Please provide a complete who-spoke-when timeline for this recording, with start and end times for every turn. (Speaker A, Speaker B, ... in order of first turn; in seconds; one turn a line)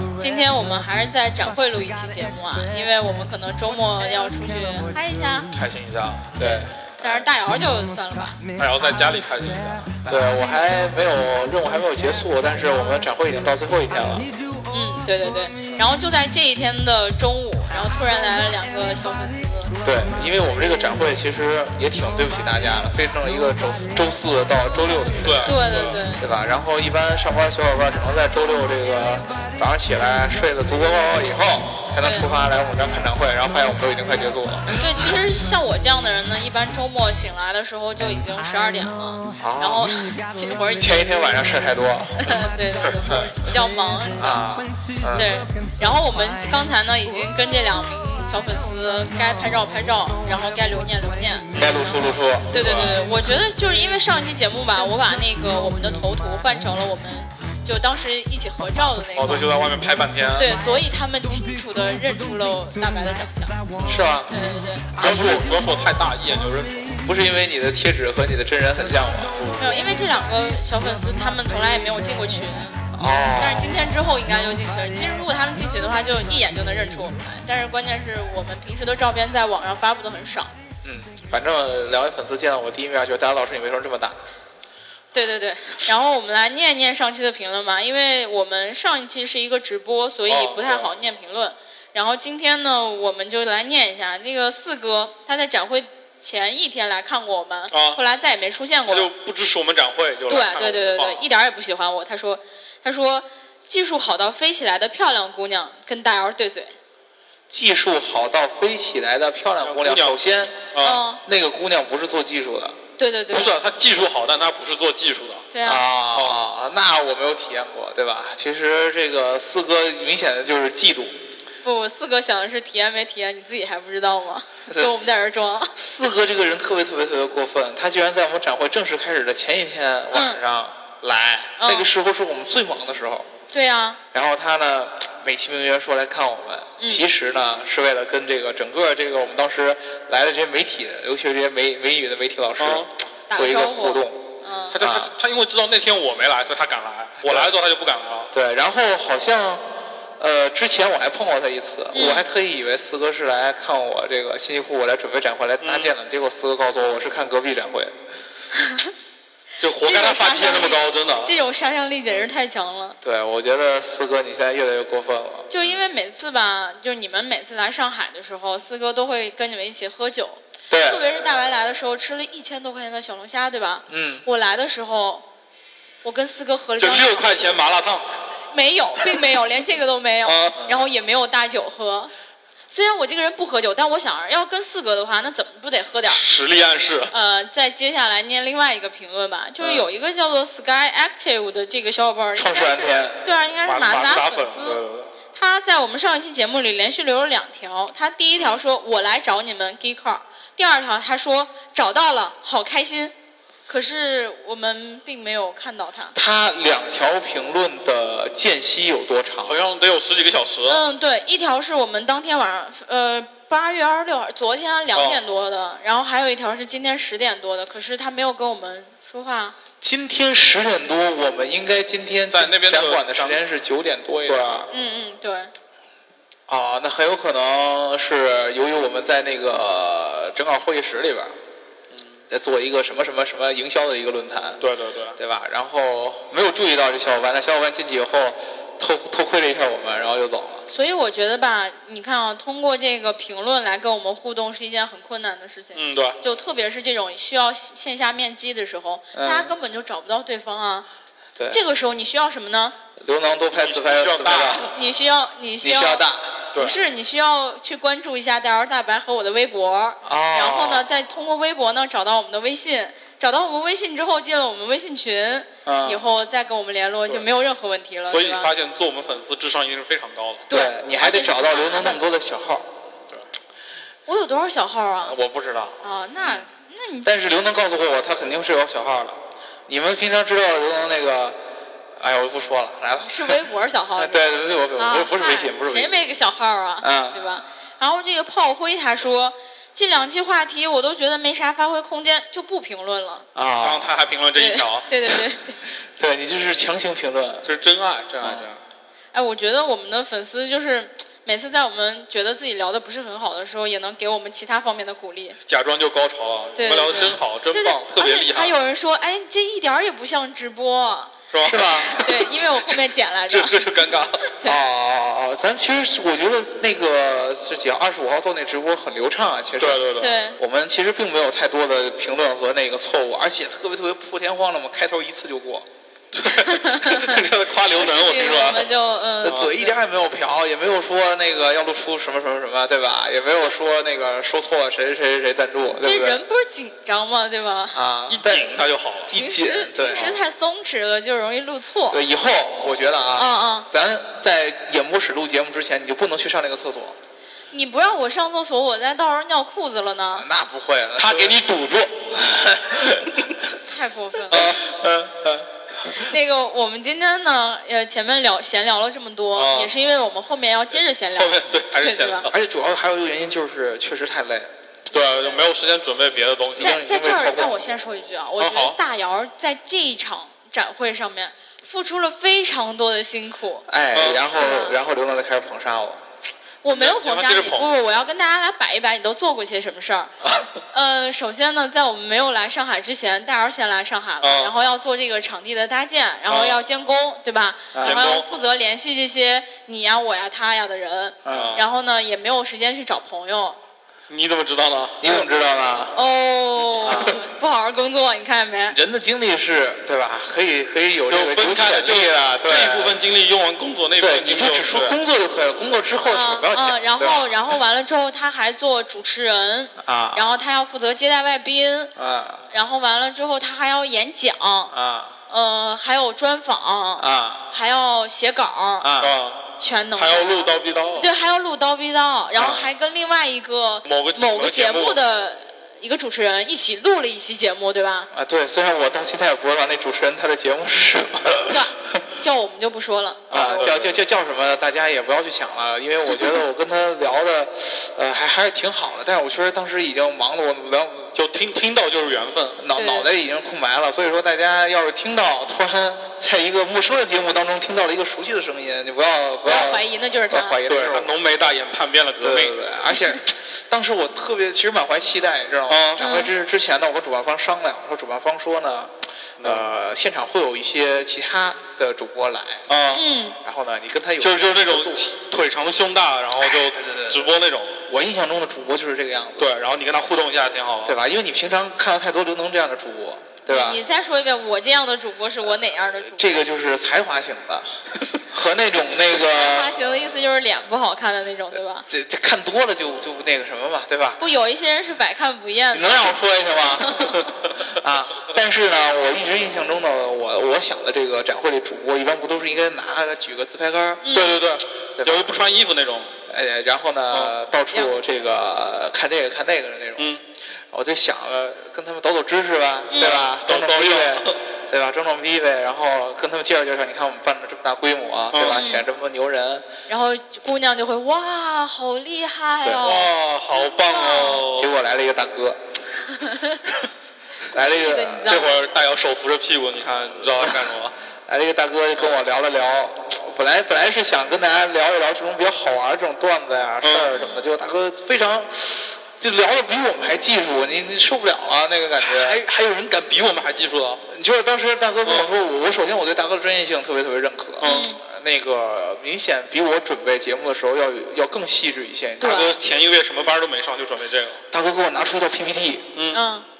Speaker A: 0.2-5.5
Speaker B: 5.5-6.4
Speaker C: 6.3-7.3
Speaker A: 6.4-8.4
Speaker B: 8.6-10.0
Speaker C: 10.1-14.3
Speaker A: 14.7-19.8
Speaker C: 19.8-35.1
Speaker B: 25.2-26.0
Speaker A: 25.4-26.2
Speaker A: 32.0-32.3
Speaker A: 34.8-41.2
Speaker C: 39.4-40.0
Speaker C: 40.8-42.4
Speaker A: 42.2-44.4
Speaker C: 43.0-43.3
Speaker C: 44.1-45.3
Speaker A: 45.1-51.5
Speaker C: 51.5-52.6
Speaker B: 52.4-53.0
Speaker A: 52.5-59.5
Speaker B: 59.1-60.5
Speaker A: 60.3-63.6
Speaker B: 63.7-64.0
Speaker C: 63.9-64.3
Speaker A: 64.3-65.0
Speaker C: 65.0-65.5
Speaker B: 65.0-67.0
Speaker C: 67.0-69.5
Speaker B: 69.3-69.7
Speaker A: 69.6-72.8
Speaker C: 72.9-73.8
Speaker A: 73.4-80.5
Speaker C: 80.8-84.2
Speaker A: 85.1-99.1
Speaker B: 90.3-90.9
Speaker B: 97.7-98.0
Speaker B: 98.9-101.2
Speaker A: 100.3-106.7
Speaker C: 107.5-110.7
Speaker B: 109.6-110.2
Speaker B: 110.7-111.0
Speaker A: 110.8-111.2
Speaker C: 111.2-112.8
Speaker A: 113.0-113.5
Speaker B: 113.3-115.5
Speaker A: 115.5-115.8
Speaker C: 115.6-121.2
Speaker B: 116.1-116.4
Speaker A: 121.6-125.7
Speaker C: 124.7-125.1
Speaker C: 125.7-133.3
Speaker A: 130.1-130.4
Speaker A: 131.6-131.9
Speaker A: 133.5-134.0
Speaker C: 134.1-145.1
Speaker A: 136.8-137.0
Speaker B: 142.6-142.9
Speaker A: 143.3-144.8
Speaker B: 144.7-148.3
Speaker C: 147.2-147.5
Speaker C: 148.3-149.6
Speaker C: 150.2-157.9
Speaker A: 151.9-152.2
Speaker B: 155.6-155.9
Speaker A: 158.6-158.9
Speaker B: 159.6-161.3
Speaker A: 159.8-163.0
Speaker C: 163.0-165.5
Speaker A: 165.5-175.2
Speaker C: 170.7-171.0
Speaker C: 173.9-174.2
Speaker A: 176.0-177.2
Speaker B: 176.8-178.1
Speaker A: 178.5-182.1
Speaker B: 180.2-180.6
Speaker A: 182.7-186.2
Speaker B: 186.1-187.1
Speaker A: 187.1-194.8
Speaker C: 189.6-189.9
Speaker C: 192.3-193.2
Speaker B: 193.6-195.1
Speaker A: 195.3-203.1
Speaker A: 203.7-206.1
Speaker C: 206.1-209.6
Speaker B: 209.4-210.8
Speaker A: 210.7-219.6
Speaker B: 214.9-215.2
Speaker C: 219.8-224.7
Speaker B: 222.3-223.4
Speaker B: 224.3-224.7
Speaker A: 224.7-225.5
Speaker C: 226.5-231.3
Speaker B: 231.9-232.2
Speaker C: 232.3-234.6
Speaker B: 234.6-235.2
Speaker C: 235.2-240.6
Speaker A: 240.7-250.8
Speaker B: 245.7-246.2
Speaker C: 249.1-249.5
Speaker A: 251.5-252.8
Speaker C: 253.0-254.6
Speaker B: 253.6-254.7
Speaker A: 254.6-268.5
Speaker C: 255.6-256.4
Speaker C: 260.0-260.8
Speaker C: 265.6-266.0
Speaker B: 268.0-270.5
Speaker C: 270.5-272.7
Speaker A: 270.5-272.0
Speaker A: 274.1-275.2
Speaker C: 275.0-276.4
Speaker A: 275.8-277.1
Speaker C: 277.0-281.4
Speaker C: 282.0-283.4
Speaker A: 283.0-293.2
Speaker C: 283.9-286.0
Speaker C: 286.8-287.2
Speaker C: 293.3-293.9
Speaker B: 293.6-294.8
Speaker A: 294.4-295.6
Speaker C: 296.0-297.4
Speaker B: 297.4-298.6
Speaker C: 298.2-298.5
Speaker A: 299.1-305.4
Speaker B: 305.5-308.5
Speaker A: 306.6-311.1
Speaker B: 311.3-314.2
Speaker C: 311.4-312.1
Speaker A: 311.9-313.6
Speaker A: 314.2-314.6
Speaker C: 314.4-319.8
Speaker B: 319.6-320.2
Speaker A: 320.0-320.4
Speaker C: 320.4-325.7
Speaker B: 326.1-328.7
Speaker A: 326.3-329.7
Speaker C: 329.2-336.2
Speaker A: 335.8-337.8
Speaker C: 337.7-340.2
Speaker B: 338.1-339.1
Speaker A: 339.1-342.0
Speaker C: 341.9-346.9
Speaker A: 343.1-343.7
Speaker A: 347.5-350.2
Speaker C: 350.1-351.4
Speaker B: 351.0-352.1
Speaker C: 352.1-353.3
Speaker A: 353.6-354.5
Speaker B: 354.3-355.4
Speaker C: 354.3-355.3
Speaker A: 355.9-362.3
Speaker B: 359.3-359.7
Speaker B: 361.1-362.3
Speaker C: 362.3-364.5
Speaker B: 364.9-366.8
Speaker A: 364.9-365.4
Speaker C: 366.6-367.7
Speaker A: 366.6-373.6
Speaker B: 368.4-368.8
Speaker C: 373.7-376.0
Speaker B: 373.9-374.2
Speaker A: 374.4-374.8
Speaker A: 376.6-380.1
Speaker B: 376.7-377.7
Speaker A: 380.7-393.6
Speaker B: 384.2-384.5
Speaker B: 386.3-386.6
Speaker C: 387.7-388.1
Speaker B: 387.8-388.2
Speaker C: 391.2-391.6
Speaker B: 391.3-391.6
Speaker B: 394.1-395.0
Speaker C: 395.0-396.0
Speaker A: 395.9-398.8
Speaker C: 396.8-397.2
Speaker C: 398.7-403.0
Speaker B: 401.1-404.9
Speaker C: 404.0-407.3
Speaker A: 406.1-411.9
Speaker C: 409.8-410.2
Speaker C: 411.9-412.4
Speaker A: 412.5-414.7
Speaker C: 414.7-415.1
Speaker A: 415.3-418.9
Speaker C: 417.0-417.5
Speaker C: 418.8-419.2
Speaker B: 419.0-421.1
Speaker A: 419.6-428.1
Speaker C: 422.4-422.7
Speaker B: 423.8-425.0
Speaker C: 428.1-432.0
Speaker A: 431.5-433.7
Speaker B: 433.3-433.9
Speaker C: 433.3-441.1
Speaker B: 441.1-442.6
Speaker C: 442.6-451.1
Speaker A: 442.7-443.1
Speaker A: 449.4-450.6
Speaker B: 450.7-452.5
Speaker C: 452.2-462.6
Speaker B: 455.7-456.0
Speaker A: 456.0-456.3
Speaker B: 462.7-463.0
Speaker A: 462.9-463.4
Speaker C: 463.4-465.1
Speaker B: 464.2-467.8
Speaker C: 466.4-469.5
Speaker B: 469.4-471.0
Speaker C: 470.8-473.8
Speaker A: 473.5-476.4
Speaker C: 476.1-477.7
Speaker C: 478.3-479.7
Speaker A: 479.1-481.9
Speaker C: 481.9-484.2
Speaker A: 484.2-486.1
Speaker C: 485.7-494.0
Speaker A: 494.0-494.4
Speaker B: 494.1-496.1
Speaker C: 495.0-495.3
Speaker C: 496.3-500.1
Speaker C: 500.7-509.7
Speaker A: 502.9-503.2
Speaker B: 503.0-504.4
Speaker B: 508.3-508.7
Speaker A: 508.4-508.9
Speaker A: 509.9-514.5
Speaker B: 512.8-514.7
Speaker C: 514.5-515.6
Speaker A: 516.1-516.6
Speaker C: 517.5-518.5
Speaker A: 517.7-518.6
Speaker B: 518.2-520.9
Speaker C: 521.3-532.4
Speaker B: 526.8-527.1
Speaker A: 527.1-527.4
Speaker B: 532.0-534.0
Speaker C: 534.1-542.5
Speaker B: 535.0-535.3
Speaker B: 537.6-537.9
Speaker A: 537.6-538.0
Speaker A: 542.2-542.5
Speaker B: 542.2-544.4
Speaker C: 544.5-545.9
Speaker B: 546.0-546.2
Speaker A: 546.1-546.5